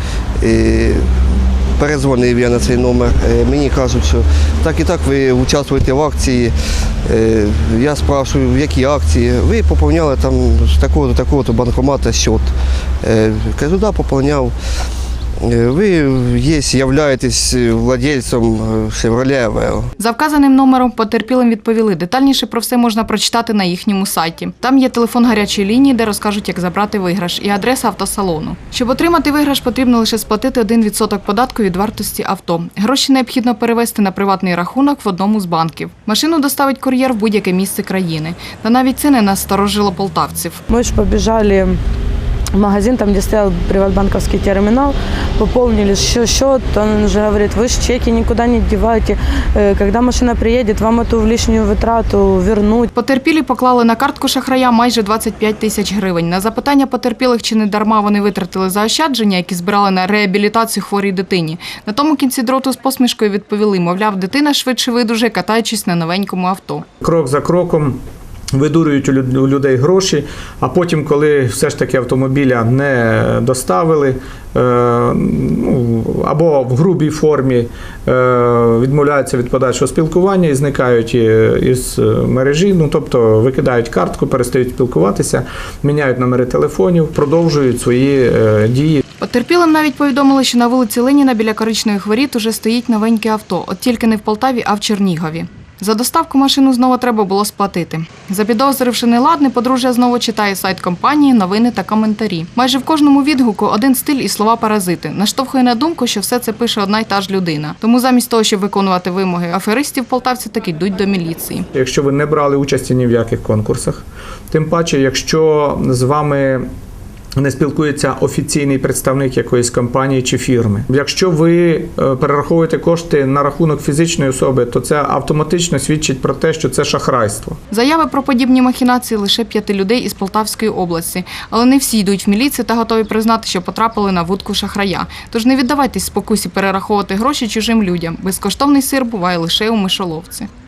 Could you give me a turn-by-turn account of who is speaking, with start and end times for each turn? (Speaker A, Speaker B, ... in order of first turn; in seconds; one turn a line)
Speaker A: 0.4-1.1
Speaker A: 1.8-6.5
Speaker A: 7.0-12.5
Speaker A: 13.0-14.5
Speaker A: 15.4-19.9
Speaker B: 20.0-40.6
Speaker C: 40.7-41.8
Speaker C: 42.6-52.9
Speaker B: 52.9-66.8
Speaker D: 67.0-68.0
Speaker D: 68.5-89.0
Speaker B: 89.2-111.7
Speaker D: 111.7-116.7
Speaker D: 117.4-127.6
Speaker B: 127.7-140.5